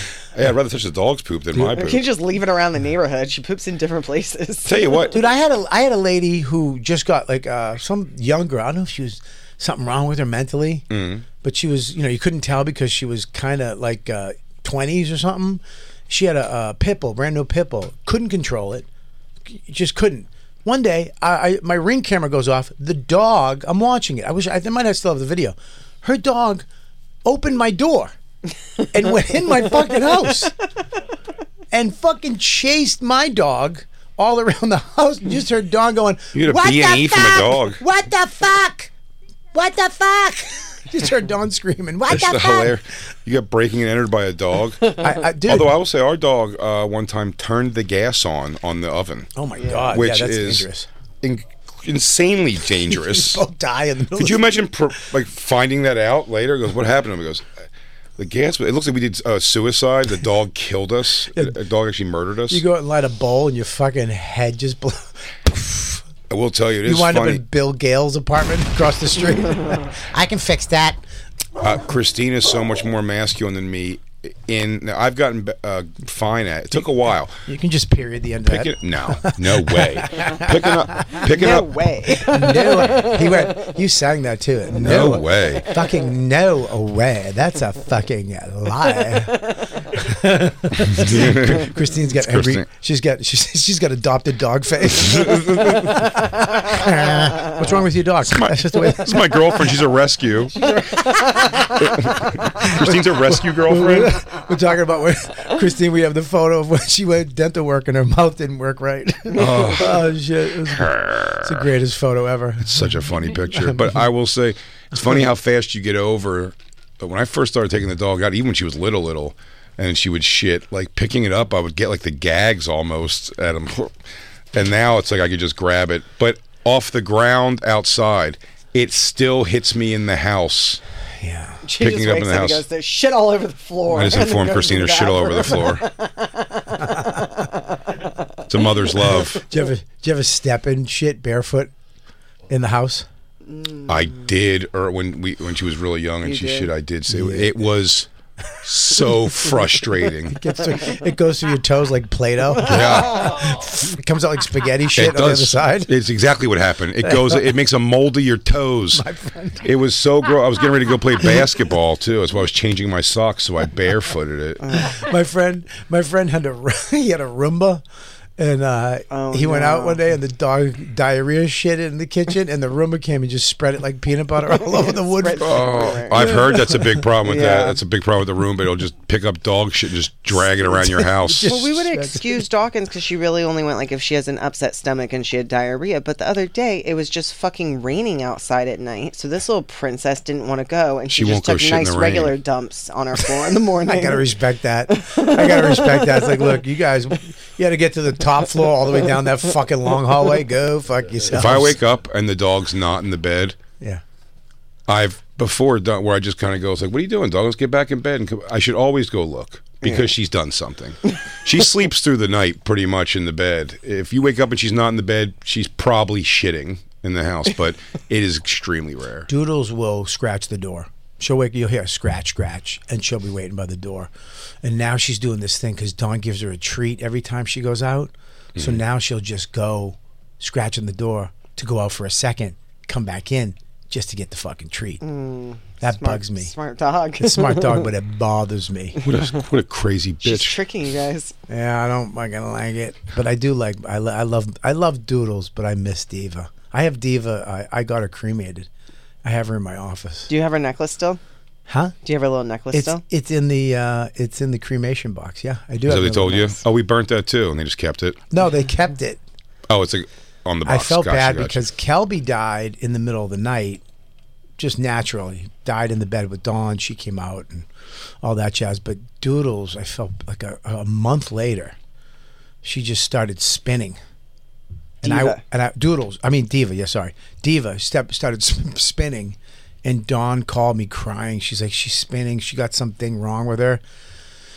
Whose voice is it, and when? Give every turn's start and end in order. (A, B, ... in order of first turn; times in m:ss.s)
0:00.3-0:02.1 A
0:01.6-0:05.1 B
0:04.6-0:05.2 A
0:05.1-0:10.9 C
0:10.9-0:11.2 A
0:11.4-0:18.9 C
0:19.5-0:26.7 C
0:27.2-0:28.1 C
0:28.9-0:30.6 C
0:31.7-0:38.9 C
0:36.3-0:37.8 A
0:39.5-0:42.7 C
0:42.1-0:49.3 A
0:45.0-0:45.7 C
0:49.4-0:50.9 C
0:49.6-0:49.9 B
0:49.9-0:50.7 A
0:51.2-0:53.4 A
0:52.9-0:54.6 C
0:54.2-0:57.5 A
0:58.2-1:02.6 A
1:02.5-1:06.0 C
1:06.3-1:07.4 A
1:06.8-1:11.0 C
1:11.6-1:17.4 A
1:17.4-1:21.2 C
1:18.4-1:21.7 A
1:21.2-1:23.7 B
1:22.2-1:39.6 C
1:24.7-1:25.7 A
1:29.1-1:29.8 B
1:30.8-1:32.7 A
1:35.0-1:36.1 A
1:38.2-1:40.6 A
1:40.6-1:54.0 C
1:40.6-1:41.7 B
1:41.8-1:44.2 A
1:49.4-1:50.1 A
1:49.4-1:49.6 B
1:50.7-1:51.7 A
1:52.6-2:04.0 A
2:04.5-2:10.8 A
2:11.2-2:11.6 C
2:11.6-2:19.2 B
2:11.8-2:12.6 A
2:13.9-2:15.9 A
2:18.5-2:19.4 A
2:19.3-2:21.7 C
2:22.5-2:23.1 C
2:23.5-2:24.2 B
2:23.9-2:28.1 A
2:26.2-2:26.7 B
2:27.1-2:27.6 C
2:28.6-2:30.4 A
2:29.0-2:35.9 C
2:32.6-2:33.6 A
2:32.7-2:33.4 B
2:34.9-2:39.0 A
2:37.0-2:37.4 C
2:38.9-2:39.7 C
2:39.6-2:44.6 A
2:44.6-2:44.9 B
2:44.8-2:47.8 C
2:48.4-2:56.6 C
2:49.1-2:50.0 B
2:54.5-2:56.5 B
2:55.4-3:01.6 A
2:57.2-2:57.8 B
3:00.6-3:02.4 C
3:01.4-3:14.4 B
3:11.1-3:12.4 A
3:13.8-3:21.8 C
3:14.9-3:16.6 B
3:21.3-3:23.6 A
3:24.9-3:39.3 A
3:29.8-3:30.1 B
3:39.3-3:44.1 C
3:44.6-3:55.0 C
3:48.6-3:48.8 A
3:55.0-3:57.9 B
3:55.8-3:56.5 C
3:57.2-3:59.0 C
3:59.0-4:00.6 A
4:00.2-4:01.4 B
4:01.5-4:08.7 C
4:09.2-4:10.3 C
4:10.3-4:11.2 B
4:11.7-4:12.0 C
4:12.0-4:13.0 B
4:12.7-4:16.6 C
4:15.8-4:18.2 A
4:18.3-4:19.2 C
4:19.7-4:21.7 A
4:20.7-4:23.8 C
4:24.6-4:27.7 C
4:28.2-4:31.8 C
4:32.6-4:34.0 C
4:35.0-4:35.4 B
4:35.0-4:43.8 C